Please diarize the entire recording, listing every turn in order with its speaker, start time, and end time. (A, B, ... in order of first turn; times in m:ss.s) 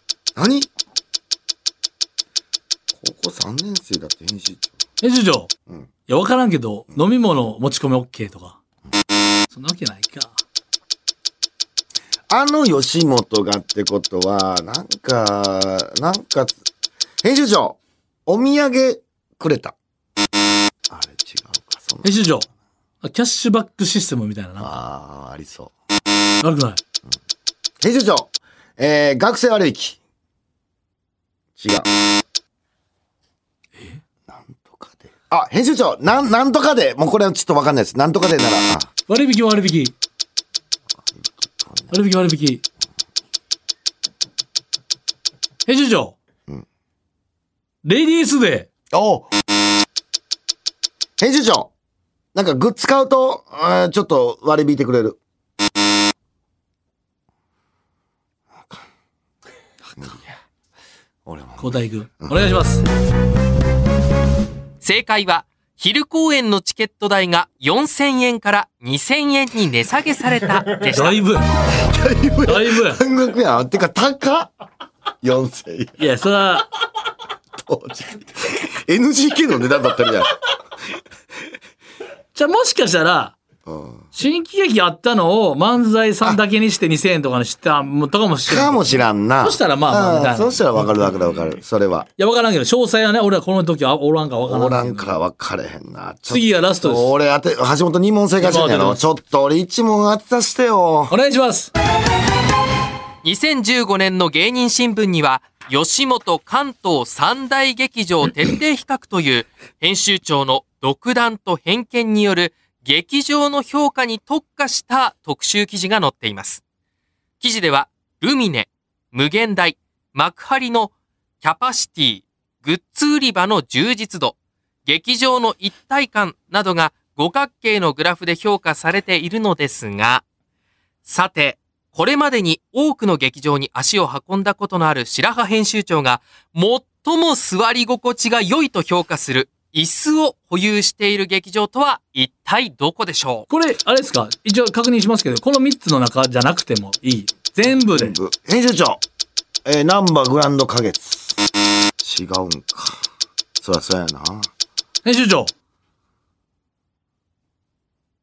0:00.3-0:00.7 A
0:02.9-0:04.7 A
0:05.0-0:05.5 B
0:06.1-0:08.6 B
0:09.5-0:10.4 B
0:12.3-0:16.6 A
0:17.2-0:19.7 A
0:20.9-0:22.2 A
0:22.0-0:22.5 B
0:23.0-0:24.8 B
0:24.6-0:25.7 A
0:26.4-0:26.8 B
0:27.8-0:30.0 A
0:31.6-0:31.9 A
0:33.8-0:34.0 B
0:34.3-0:38.9 A
0:39.1-0:39.9 B
0:41.2-0:41.9 A
0:41.9-0:42.6 B
0:45.6-0:46.2 B
0:47.8-0:48.7 B
0:48.9-0:49.3 A
0:51.2-0:51.7 A
0:52.3-0:55.2 A
1:01.2-1:02.4 A
1:01.6-1:02.8 B
1:04.8-1:11.2 C
1:10.9-1:11.5 B
1:11.7-1:14.5 A
1:12.4-1:13.0 B
1:15.2-1:16.0 A
1:16.0-1:16.7 B
1:17.5-1:20.4 A
1:22.3-1:23.4 B
1:23.6-1:24.0 A
1:24.1-1:30.6 B
1:28.4-1:32.1 A
1:32.2-1:35.2 B
1:34.4-1:41.1 A
1:36.3-1:37.1 B
1:38.4-1:39.0 B
1:41.1-1:41.7 B
1:43.2-1:56.6 C
1:57.4-2:10.2 C
2:11.0-2:23.5 C
2:23.5-2:28.2 B
2:27.9-2:29.0 A
2:29.6-2:31.4 A
2:32.0-2:33.1 A
2:33.6-2:34.5 A
2:35.0-2:35.5 B